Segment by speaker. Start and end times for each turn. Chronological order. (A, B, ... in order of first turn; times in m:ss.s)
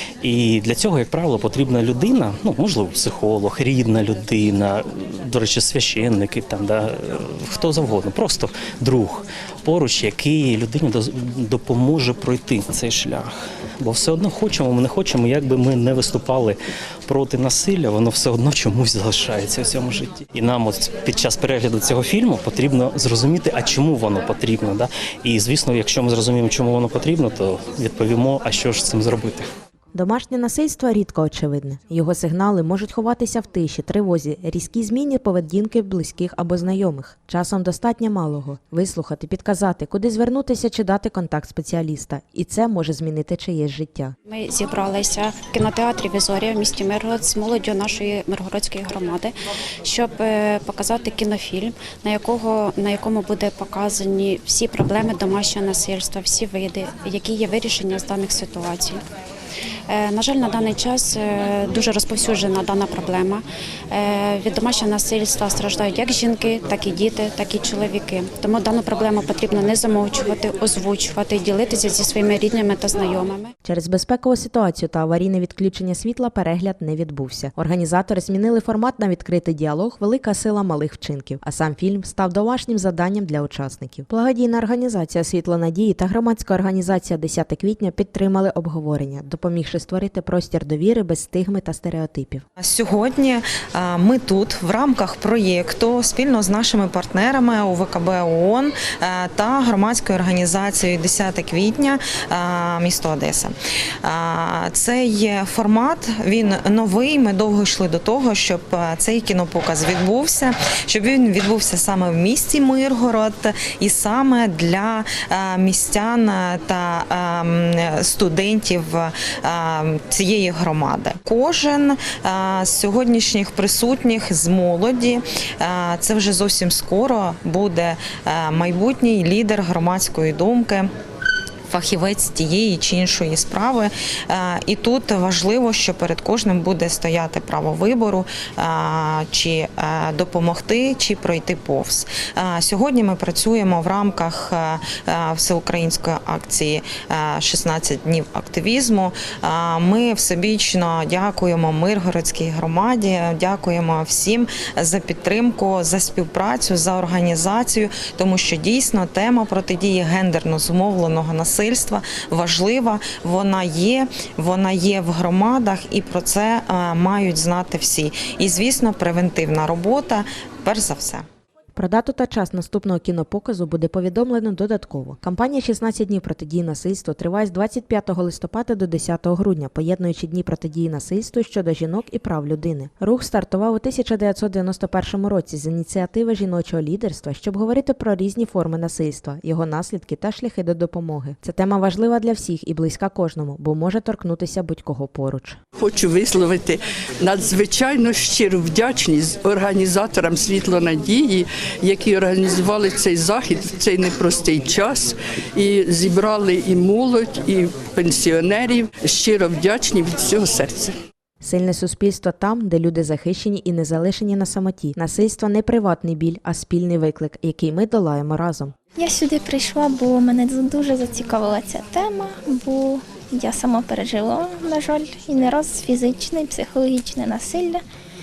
0:00.2-0:29.5 A
0:29.9-0:44.2 B
0:44.3-0:59.0 C
0:59.9-1:13.5 C
1:13.6-1:32.4 B
1:32.6-2:10.9 D
2:11.7-2:51.3 D
2:51.8-3:15.6 B
3:15.8-3:31.0 E
3:31.4-3:38.7 B
3:39.0-3:47.8 F